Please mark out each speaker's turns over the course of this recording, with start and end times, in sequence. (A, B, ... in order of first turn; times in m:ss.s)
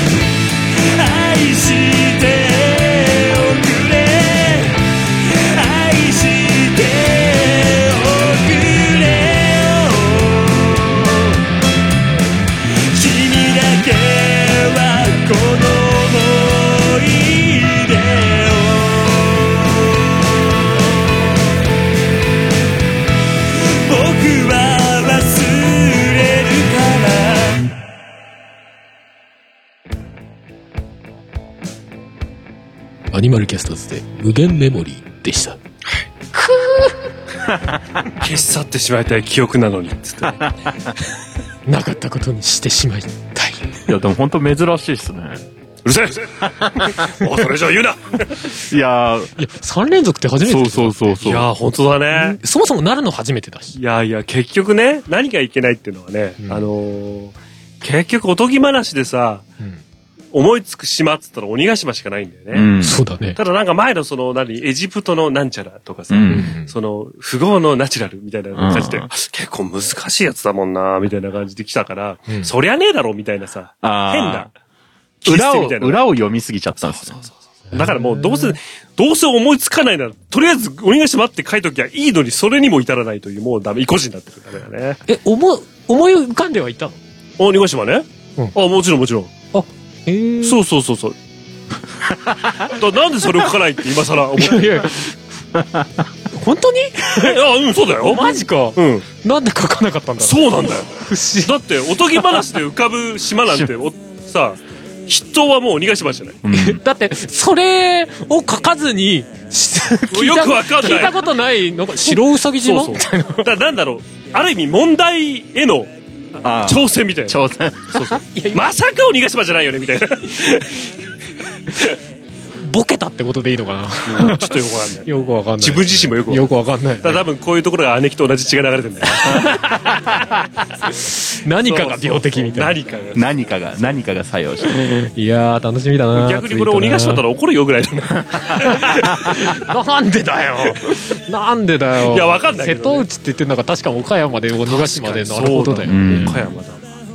0:00.8-0:11.4 A
0:12.9-0:21.3 A
0:23.8-0:27.7 A
0:33.1-0:35.6 B
0:36.3-0:37.1 B
0:37.5-0:37.8 C
0:38.2-0:40.5 D
0:40.4-0:40.7 C
0:41.6-0:43.7 B
0:43.9-0:45.4 C
0:45.8-0:48.4 D
0:48.7-0:49.3 C
0:49.4-0:51.4 B
0:50.4-0:51.5 C
0:51.2-0:52.4 D
0:52.1-0:53.8 B
0:53.8-0:59.4 D
0:56.4-0:56.7 B
1:00.3-1:02.7 D
1:02.5-1:03.0 C
1:02.8-1:03.4 B
1:03.3-1:14.5 D
1:06.1-1:06.5 C
1:06.3-1:06.7 B
1:08.5-1:09.1 C
1:13.8-1:14.5 C
1:15.2-1:16.0 D
1:15.2-1:17.2 C
1:16.8-1:25.0 D
1:17.7-1:18.6 B
1:25.1-1:27.0 B
1:27.4-1:29.3 D
1:29.5-1:30.6 B
1:30.4-1:31.2 D
1:32.7-1:34.9 D
1:34.4-1:35.2 B
1:35.5-1:36.0 C
1:36.3-1:37.4 B
1:37.1-1:39.1 D
1:38.0-1:41.6 B
1:40.2-1:46.4 D
1:46.4-1:46.8 C
1:46.5-1:53.5 B
1:50.1-1:51.2 D
1:52.0-1:55.9 D
1:56.4-1:58.2 C
1:56.6-2:00.9 D
1:58.3-1:58.6 B
2:02.6-2:07.2 B
2:04.0-2:06.5 D
2:07.0-2:09.7 D
2:09.2-2:10.0 B
2:10.8-2:12.8 B
2:11.6-2:13.3 D
2:13.1-2:14.7 C
2:14.8-2:17.2 B
2:16.1-2:19.5 D
2:18.6-2:26.4 B
2:22.0-2:23.0 D
2:24.6-2:26.8 D
2:25.8-2:26.5 C